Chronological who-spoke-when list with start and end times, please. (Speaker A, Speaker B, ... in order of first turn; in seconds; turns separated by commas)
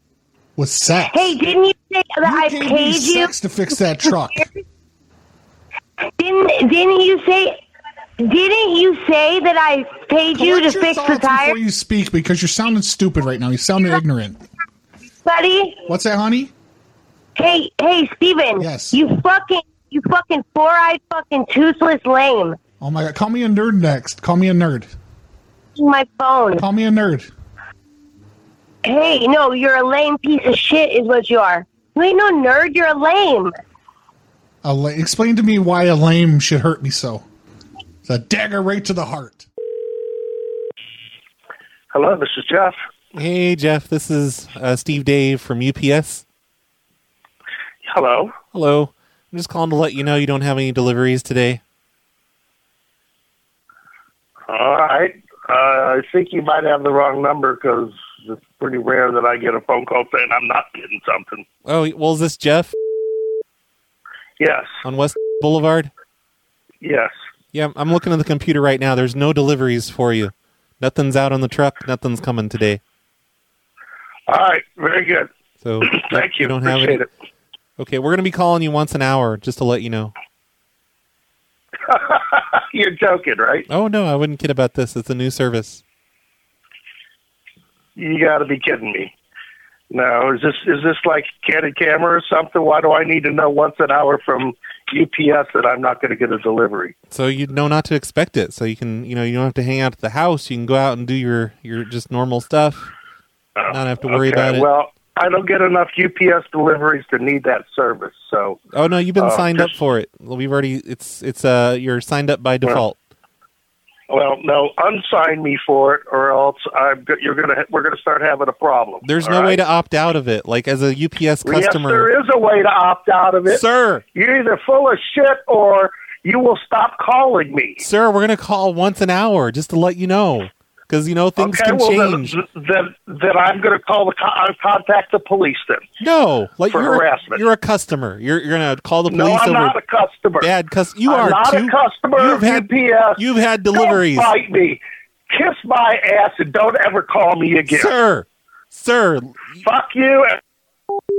Speaker A: 0.6-1.4, Speaker B: 1.1-3.3, Speaker A: 2.2-4.5, Speaker B: 6.2-7.6, Speaker B: 8.2-11.6, Speaker A: 10.3-14.4, Speaker B: 15.2-15.8, Speaker A: 15.8-16.5, Speaker B: 17.4-22.6, Speaker A: 18.6-19.0, Speaker A: 22.8-24.9, Speaker B: 25.8-26.6, Speaker A: 26.6-27.3, Speaker B: 28.8-33.5, Speaker A: 34.6-37.2, Speaker A: 38.1-39.5, Speaker C: 41.9-42.8, Speaker D: 43.1-46.2, Speaker C: 47.9-48.3, Speaker D: 48.5-51.6, Speaker C: 54.5-61.4, Speaker D: 61.6-62.7, Speaker C: 64.4-64.8, Speaker D: 64.8-65.9, Speaker C: 66.8-67.1, Speaker D: 67.5-72.8, Speaker C: 74.3-75.3, Speaker D: 75.6-77.0, Speaker C: 75.8-77.1, Speaker D: 77.8-80.1, Speaker C: 81.9-83.7, Speaker D: 83.7-85.8, Speaker C: 88.0-89.1, Speaker C: 89.9-96.9, Speaker D: 97.1-102.9, Speaker C: 103.6-108.6, Speaker D: 103.7-104.7, Speaker D: 108.7-113.0, Speaker C: 109.2-109.8, Speaker C: 114.1-119.6, Speaker D: 119.0-122.1, Speaker C: 121.5-123.6, Speaker D: 123.5-124.0, Speaker C: 124.1-127.8, Speaker D: 127.8-132.3, Speaker C: 131.4-135.9, Speaker D: 136.0-139.8, Speaker C: 136.7-137.4, Speaker C: 139.1-140.5, Speaker D: 140.4-144.3, Speaker C: 141.1-147.9, Speaker D: 147.7-149.6, Speaker C: 149.6-150.4